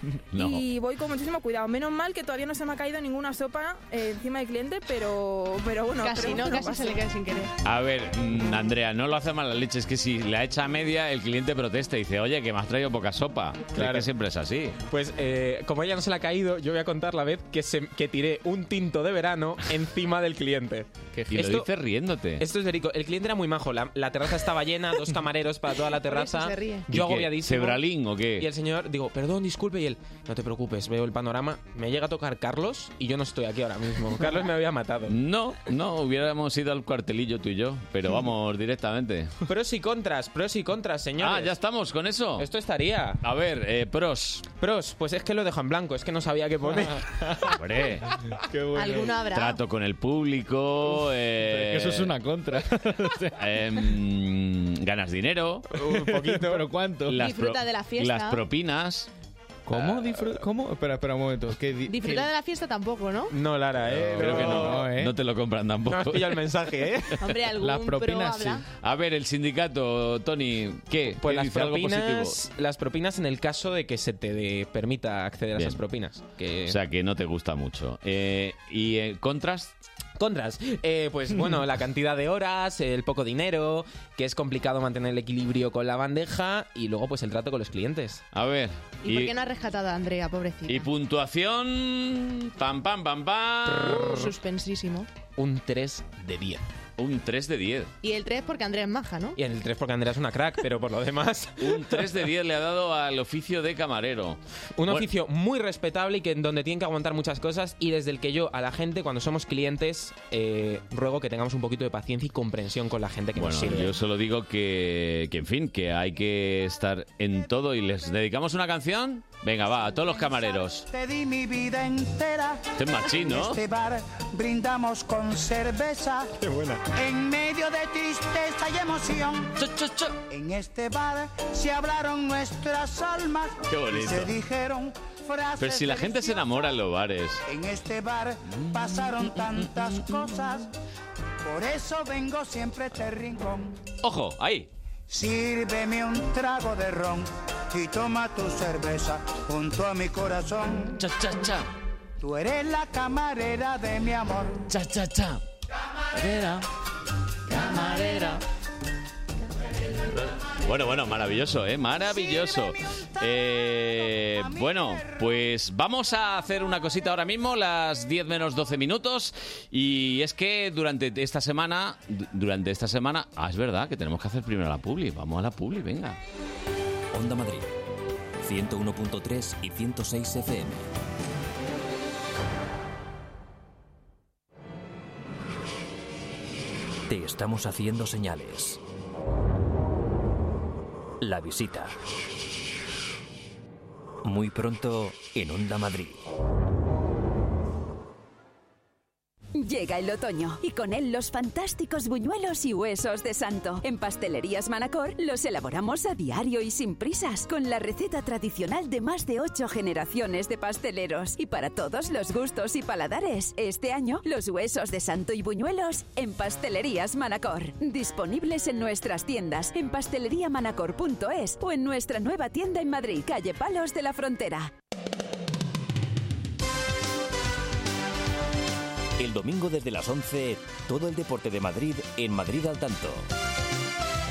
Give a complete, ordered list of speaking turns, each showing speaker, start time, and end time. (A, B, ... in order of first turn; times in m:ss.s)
0:00.3-0:00.6 A
0:00.3-0:07.0 B
0:06.0-0:07.5 C
0:07.6-0:14.8 A
0:13.8-0:14.0 D
0:14.9-0:21.6 D
0:21.1-0:21.5 E
0:21.3-0:22.4 A
0:22.4-0:27.8 D
0:25.9-0:26.9 C
0:26.9-0:28.5 A
0:28.4-0:35.1 D
0:35.1-0:39.3 A
0:39.5-0:41.5 D
0:41.2-0:42.5 A
0:42.4-0:43.2 D
0:43.2-0:44.5 A
0:44.6-0:47.1 D
0:47.5-0:48.1 A
0:48.5-0:49.2 E
0:48.7-0:49.6 C
0:49.3-0:52.1 A
0:51.5-0:53.4 E
0:53.4-0:55.7 A
0:55.7-0:56.7 D
0:55.9-0:57.2 E
0:57.0-0:59.1 A
0:57.2-0:58.4 C
0:59.6-1:02.3 E
0:59.7-1:00.3 A
1:01.9-1:03.3 C
1:03.3-1:04.8 D
1:03.9-1:06.5 A
1:04.2-1:05.1 E
1:05.9-1:07.2 D
1:07.2-1:08.6 C
1:07.5-1:08.6 E
1:08.8-1:12.4 A
1:11.0-1:16.8 D
1:15.6-1:15.8 A
1:16.6-1:19.7 A
1:20.2-1:28.2 D
1:28.3-1:29.3 A
1:29.0-1:30.9 C
1:30.6-1:34.3 A
1:33.8-1:35.1 C
1:35.4-1:36.6 D
1:37.0-1:37.9 A
1:38.0-1:39.4 C
1:39.4-1:42.0 D
1:41.6-1:45.1 A
1:44.8-1:54.0 D
1:53.3-2:00.9 A
2:00.9-2:06.4 F
2:02.8-2:03.6 A
2:06.4-2:06.8 D
2:06.9-2:09.5 F
2:09.6-2:10.2 A
2:10.3-2:16.7 F
2:13.7-2:14.3 A
2:15.6-2:17.4 A
2:17.4-2:20.7 F
2:21.4-2:23.7 F
2:24.0-2:24.7 A
2:25.1-2:31.0 F
2:31.0-2:31.7 A
2:32.2-2:34.6 F
2:34.7-2:35.4 A
2:36.1-2:36.6 A
2:37.5-2:38.4 A
2:39.9-2:56.2 A
2:42.0-2:45.3 F
2:57.1-2:57.7 G
2:58.4-3:00.9 G
3:07.1-3:08.8 G
3:11.2-3:12.0 G
3:14.2-3:16.2 G
3:19.6-3:44.7 H
3:49.2-3:53.3 G